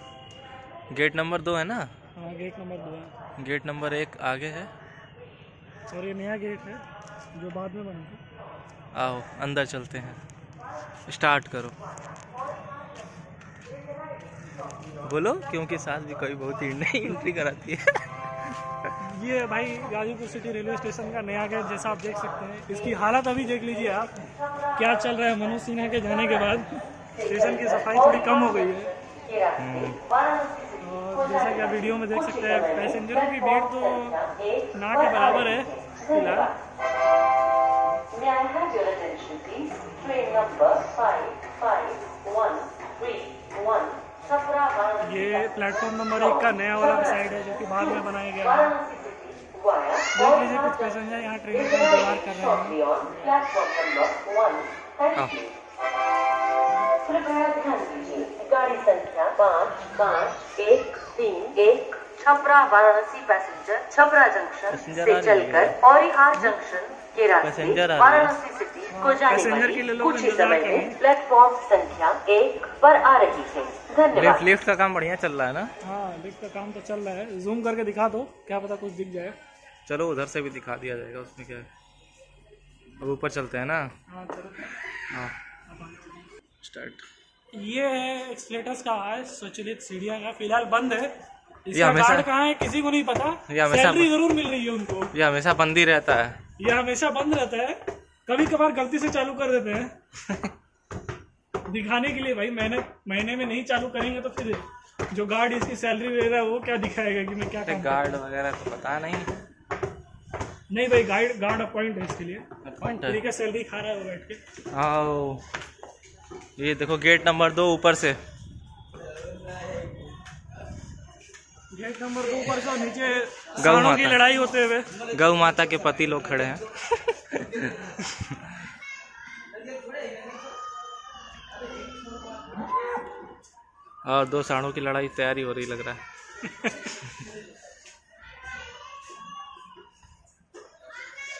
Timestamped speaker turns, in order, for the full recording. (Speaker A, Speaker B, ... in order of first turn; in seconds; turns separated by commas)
Speaker A: 0.9-1.9, Speaker B: 2.2-3.1, Speaker A: 3.4-4.7, Speaker B: 5.9-6.8, Speaker B: 7.3-8.2, Speaker A: 8.9-10.2, Speaker A: 11.1-11.8, Speaker A: 15.0-18.6, Speaker B: 19.0-28.9, Speaker C: 27.1-36.5, Speaker A: 29.6-30.0, Speaker B: 30.8-34.2, Speaker B: 34.7-36.5, Speaker C: 38.1-51.0, Speaker B: 39.9-40.2, Speaker B: 45.0-48.8, Speaker B: 50.1-52.8, Speaker C: 51.5-55.5, Speaker C: 57.0-74.4, Speaker A: 64.7-65.8, Speaker A: 67.4-68.4, Speaker B: 68.9-71.0, Speaker A: 74.1-75.7, Speaker B: 75.8-79.3, Speaker A: 79.9-81.7, Speaker A: 83.0-83.9, Speaker B: 84.1-84.8, Speaker A: 85.1-85.3, Speaker B: 85.7-86.3, Speaker A: 86.6-87.0, Speaker B: 87.5-91.1, Speaker B: 91.6-95.1, Speaker A: 91.7-92.3, Speaker A: 93.5-94.2, Speaker A: 95.1-96.4, Speaker B: 96.6-99.9, Speaker A: 100.2-100.5, Speaker B: 101.7-108.2, Speaker A: 107.6-109.3, Speaker B: 110.7-112.5, Speaker A: 112.6-113.2, Speaker B: 113.0-114.4, Speaker A: 114.7-115.4, Speaker A: 116.6-118.2, Speaker B: 121.7-124.9, Speaker A: 123.6-124.2, Speaker A: 125.0-128.6, Speaker A: 134.0-136.0